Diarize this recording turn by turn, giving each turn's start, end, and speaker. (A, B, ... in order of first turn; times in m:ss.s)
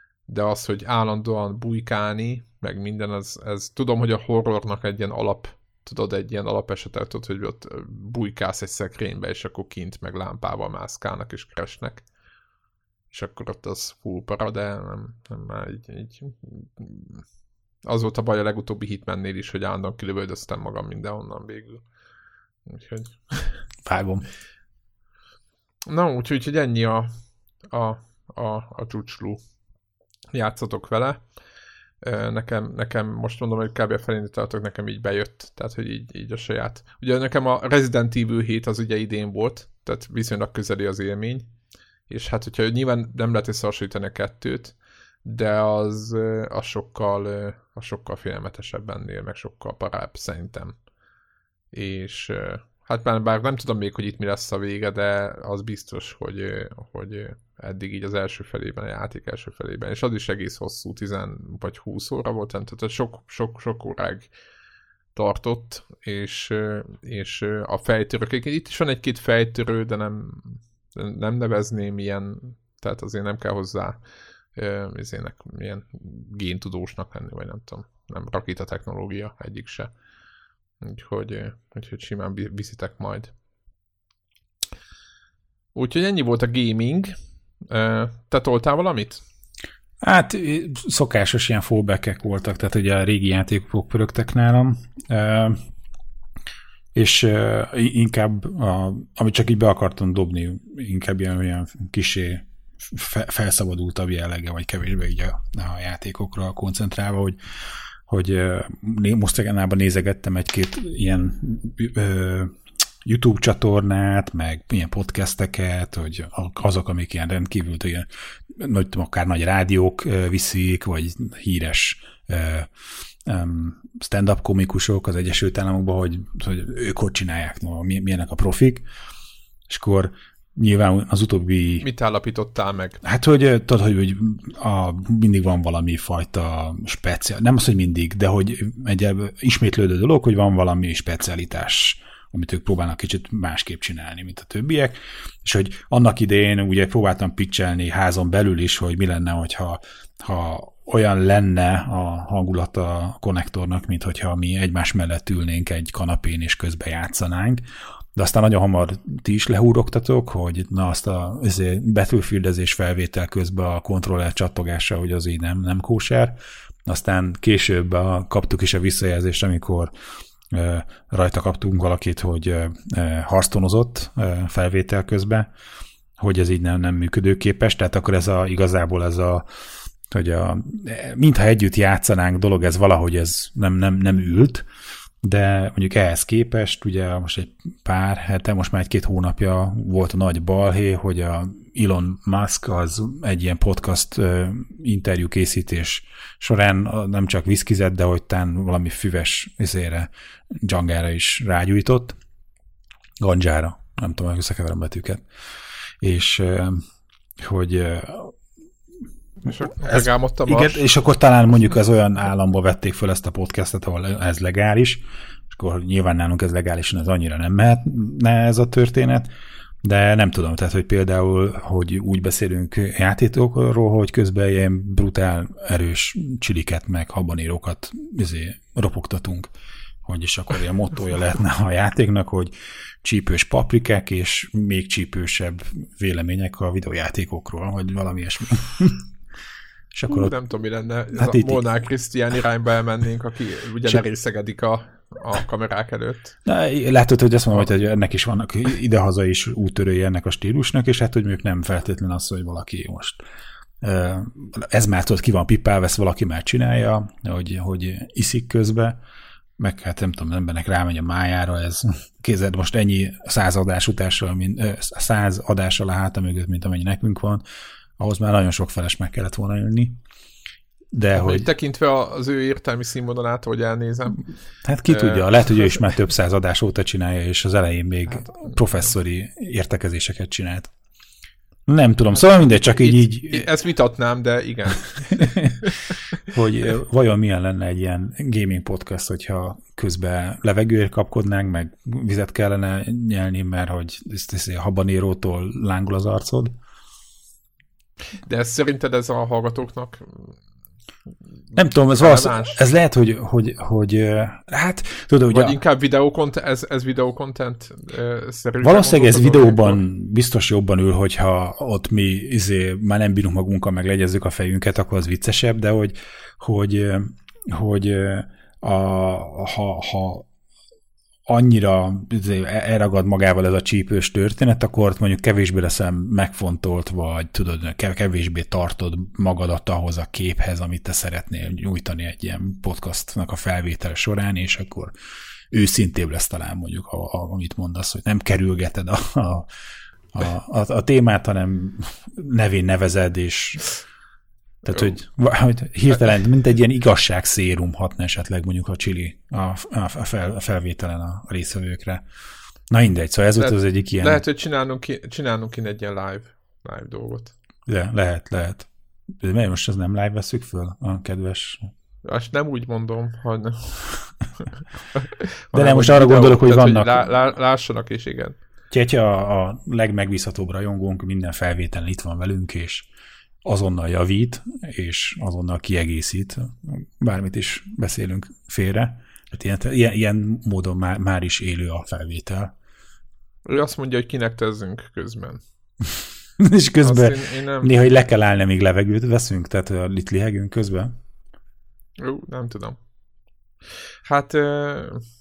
0:00.3-0:12.0 A
0:13.1-0:17.2 A
0:17.8-0:21.8 A
0:22.7-0:23.6 A
0:23.8-0:24.2 B
0:25.9-0:27.1 A
0:27.7-0:29.4 A
0:30.3-0:31.2 A
0:32.0-0:41.5 A
0:42.1-0:50.8 A
0:51.7-1:04.3 A
1:05.2-1:14.0 A
1:14.6-1:19.9 A
1:20.8-1:23.3 A
1:25.8-1:27.1 A
1:27.7-1:29.2 A
1:30.0-1:35.6 B
1:37.0-1:47.4 B
1:48.1-2:08.8 B
2:09.7-2:11.9 B
2:11.8-2:13.0 A
2:13.0-2:37.6 B
2:38.2-2:49.9 B
2:50.5-2:55.5 B
2:56.2-2:59.5 B
3:00.1-3:04.7 B
3:05.2-3:22.2 B
3:23.2-3:25.2 B
3:26.0-3:26.8 B
3:27.4-3:28.4 B
3:29.4-3:30.8 A
3:29.5-3:39.3 B
3:39.8-3:49.5 B
3:50.0-3:59.1 B
3:59.9-4:00.4 B
4:00.1-4:06.4 A
4:01.1-4:01.6 B
4:06.4-4:13.2 B
4:13.8-4:19.0 B
4:19.6-4:27.4 B
4:28.0-4:30.0 B
4:30.9-4:31.5 B
4:31.2-4:34.3 A
4:34.6-4:40.7 B
4:34.9-4:35.9 A
4:38.2-4:38.6 A
4:41.7-4:43.5 B
4:42.2-4:46.0 A
4:45.2-4:45.6 B
4:46.2-4:56.5 B
4:58.2-5:00.4 A
5:01.6-5:05.6 B
5:01.9-5:02.6 A
5:05.3-5:09.8 A
5:08.6-5:20.3 B
5:21.3-5:34.9 B
5:35.5-5:39.5 B
5:40.1-5:43.8 B
5:44.6-5:52.0 B
5:52.7-5:54.2 B
5:53.4-5:57.3 A
5:57.7-6:01.7 B
6:02.0-6:08.4 A
6:05.5-6:07.0 B
6:08.7-6:12.9 B
6:13.4-6:22.5 B
6:23.5-6:25.4 A
6:26.4-6:30.9 B
6:26.8-6:27.7 A
6:32.0-6:32.8 A
6:34.1-6:35.0 A